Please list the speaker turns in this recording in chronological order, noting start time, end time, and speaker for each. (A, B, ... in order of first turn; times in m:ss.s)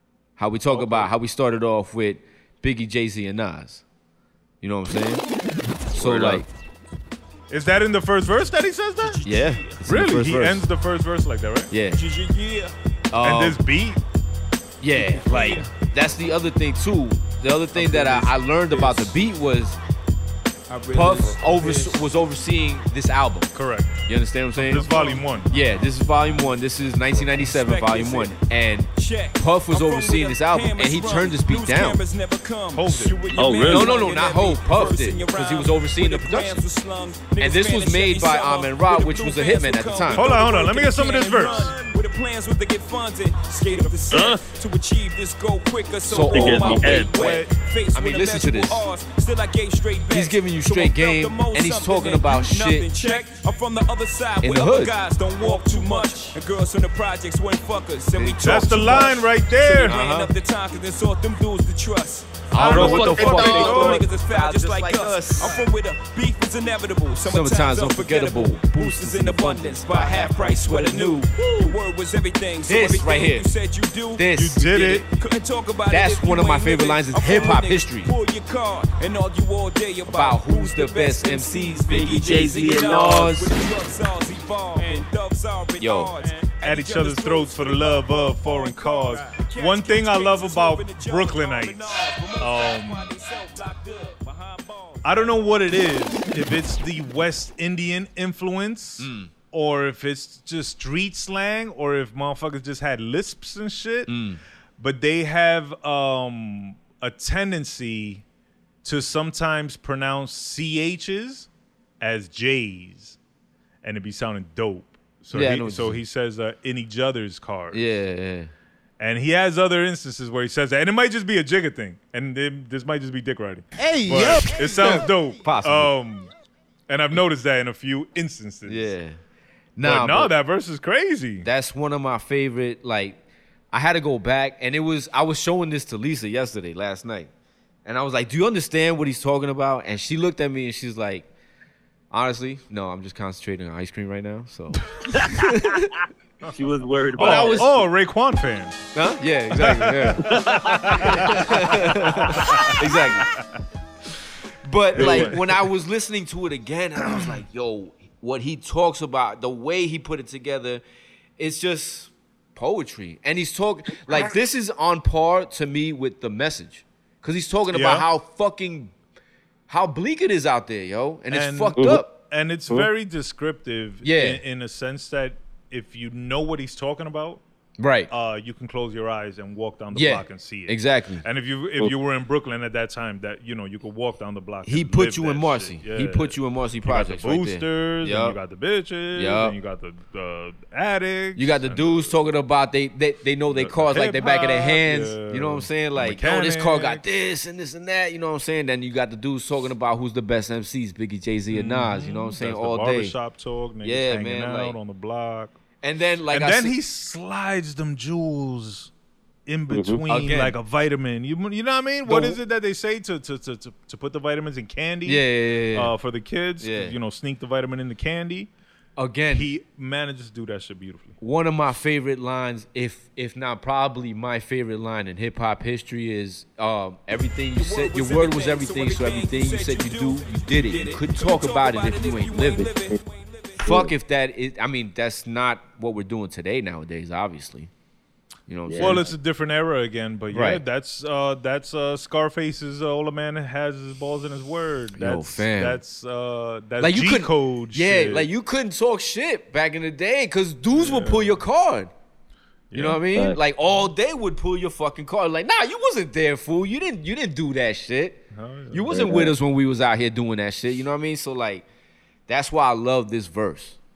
0:00.4-0:03.8 A
0:00.7-0:01.1 B
0:04.6-0:05.2 A
0:05.9-0:06.5 A
0:05.9-0:06.4 C
0:07.5-0:09.2 B
0:09.0-0:09.8 D
0:09.2-0:10.6 A
0:09.8-0:11.7 B
0:11.7-0:12.0 A
0:11.9-0:12.7 D
0:13.1-0:13.6 A
0:13.2-0:14.0 B
0:14.8-0:19.8 A
0:14.9-0:15.7 D
0:17.8-0:19.1 B
0:17.8-0:19.0 D
0:20.7-0:22.1 D
0:20.9-0:23.5 A
0:23.5-0:24.0 B
0:24.0-0:24.9 A
0:24.6-0:25.5 B
0:24.8-0:25.2 D
0:25.5-0:32.0 A
0:27.1-0:28.4 D
0:28.9-1:35.5 D
0:32.7-0:33.9 B
0:33.4-0:33.9 C
0:33.6-0:36.7 A
0:37.4-0:40.3 A
0:40.1-0:41.8 B
0:44.1-0:44.4 C
0:46.0-0:48.8 A
0:46.3-0:47.2 C
0:50.1-0:53.2 A
0:54.4-0:56.4 A
0:58.2-1:00.0 B
0:59.8-1:00.3 A
1:02.5-1:05.6 A
1:02.5-1:04.0 C
1:02.5-1:04.0 B
1:07.2-1:11.8 A
1:12.7-1:13.5 A
1:14.2-1:15.0 A
1:14.4-1:15.1 B
1:15.9-1:18.1 A
1:20.0-1:23.6 A
1:21.9-1:23.3 C
1:25.8-1:26.2 A
1:26.6-1:33.1 B
1:35.0-1:44.2 B
1:39.0-1:39.3 A
1:44.1-1:44.4 A
1:44.8-1:48.2 B
1:48.8-1:51.5 B
1:52.0-1:53.2 B
1:53.8-1:57.9 B
1:55.3-1:56.0 A
1:57.7-1:58.5 A
1:59.0-2:06.3 B
2:03.8-2:05.9 A
2:06.9-2:08.9 B
2:08.6-2:09.2 A
2:09.8-2:10.3 A
2:09.8-2:11.5 B
2:11.4-2:13.2 A
2:13.7-2:17.3 A
2:17.8-2:21.3 A
2:22.1-2:25.9 A
2:26.5-2:27.8 C
2:27.2-2:28.9 B
2:27.2-2:27.7 A
2:28.9-2:30.3 A
2:29.6-2:33.4 B
2:30.2-2:31.4 C
2:30.9-2:33.3 A
2:32.3-2:32.7 C
2:34.6-2:40.8 A
2:34.9-2:35.6 B
2:35.0-2:35.3 C
2:37.0-2:37.4 B
2:41.4-2:48.9 A
2:47.7-2:48.0 B
2:49.7-2:52.1 A
2:51.3-2:57.4 B
2:51.8-2:52.0 C
2:54.0-2:54.4 A
2:57.8-2:58.1 A
2:58.1-3:12.1 B
2:59.9-3:01.2 A
3:04.6-3:08.4 A
3:09.1-3:09.6 A
3:11.4-3:23.1 A
3:13.5-3:17.0 B
3:21.5-3:25.6 B
3:23.8-3:24.8 A
3:25.8-3:26.7 A
3:26.3-3:28.9 B
3:29.5-3:38.5 B
3:29.7-3:30.0 C
3:30.1-3:30.5 A
3:32.0-3:32.4 A
3:35.0-3:35.9 A
3:36.6-3:37.0 A
3:39.0-3:39.5 A
3:39.3-3:41.2 B
3:41.2-3:52.7 A
3:47.6-3:53.6 D
3:53.6-3:53.9 C
3:53.6-3:57.7 A
3:58.5-3:59.1 A
3:58.7-3:59.0 C
3:58.8-4:08.3 B
4:00.3-4:00.6 A
4:05.0-4:05.8 A
4:06.8-4:11.9 A
4:10.7-4:11.4 B
4:12.7-4:13.0 B
4:12.7-4:18.2 A
4:18.3-4:19.0 B
4:18.7-4:21.6 A
4:18.9-4:19.3 C
4:22.3-4:23.8 A